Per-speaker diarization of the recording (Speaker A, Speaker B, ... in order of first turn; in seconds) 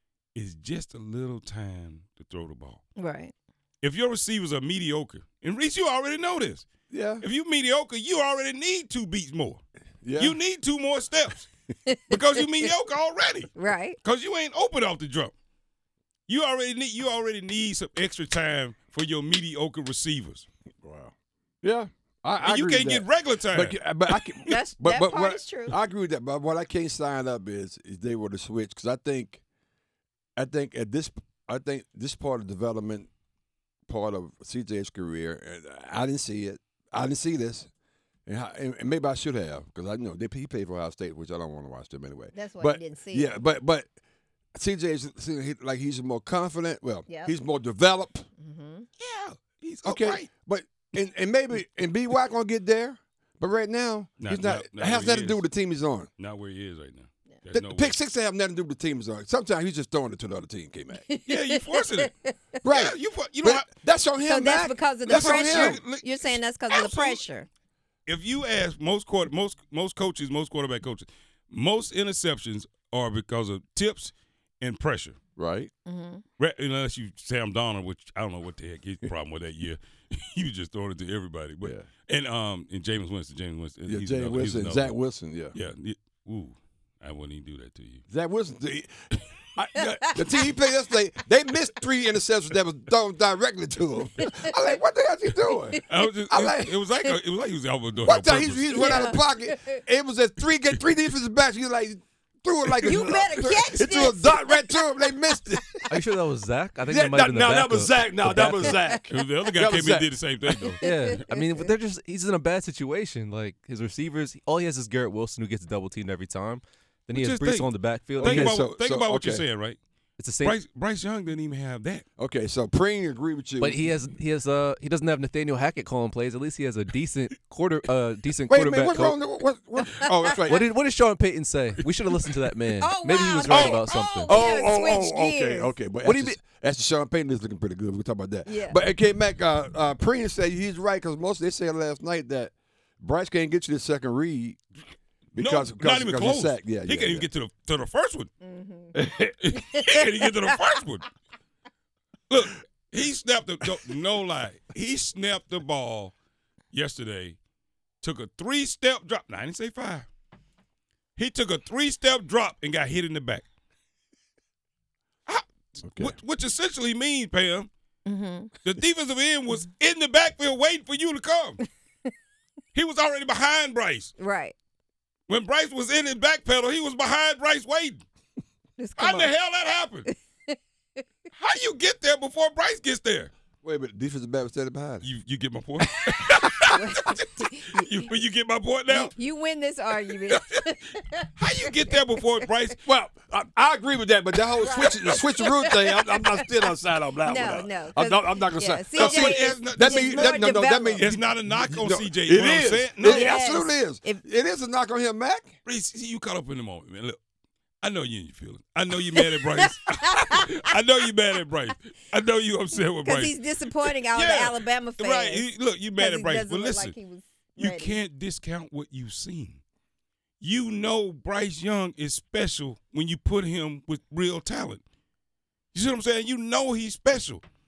Speaker A: 0.3-2.8, 3.8-6.7, 7.2-9.6, 10.2-11.5, 12.1-15.3, 16.3-20.5, 22.4-24.5, 49.0-50.3, 54.2-55.5, 56.2-58.0, 61.3-63.7, 65.0-67.2, 68.1-75.2, 76.4-85.0, 85.5-88.0, 95.9-99.1, 102.7-103.1, 109.1-110.8, 117.1-119.8, 120.4-122.0, 145.4-148.3, 149.4-151.1, 152.3-156.1, 156.7-157.4, 158.0-160.1, 161.2-163.5, 165.3-167.7, 168.6-171.6, 172.7-174.1, 175.3-178.0, 179.0-180.1, 181.4-183.3, 185.0-189.2, 190.3-190.7, 191.4-192.8, 198.9-203.4, 205.7-207.2, 207.8-217.0, 217.6-219.6, 220.4-224.8, 225.7-227.4
Speaker B: 3.0-3.3, 11.9-12.2, 13.6-14.0, 24.5-25.8, 42.3-43.4, 48.4-48.9, 61.1-62.3, 64.3-67.5, 75.9-76.2, 94.2-94.5, 98.7-99.8, 102.8-104.8, 110.8-111.6, 132.8-135.8, 138.5-138.8, 148.4-148.9, 168.1-168.5, 174.2-174.6, 178.8-179.3, 186.6-187.9, 188.9-191.8, 194.6-196.5, 197.2-201.2, 203.0-204.2, 209.6-210.4, 213.0-218.0
Speaker C: 6.9-7.2, 10.0-10.4, 20.8-29.4, 30.4-33.1, 33.9-37.7, 38.3-43.9, 44.5-48.3, 49.8-56.1, 57.5-61.0, 62.6-65.8, 75.4-75.7, 81.6-81.9, 83.8-85.6, 88.1-88.9, 89.5-96.7, 98.0-105.9, 106.9-110.1, 118.2-119.5, 122.2-123.8, 128.5-130.6, 133.5-144.6, 145.3-147.3, 148.9-149.3, 165.8-166.1, 183.6-185.1, 192.8-205.5
Speaker D: 105.9-108.7, 110.8-118.7, 120.2-120.6, 123.6-129.2, 130.4-134.4, 136.0-136.4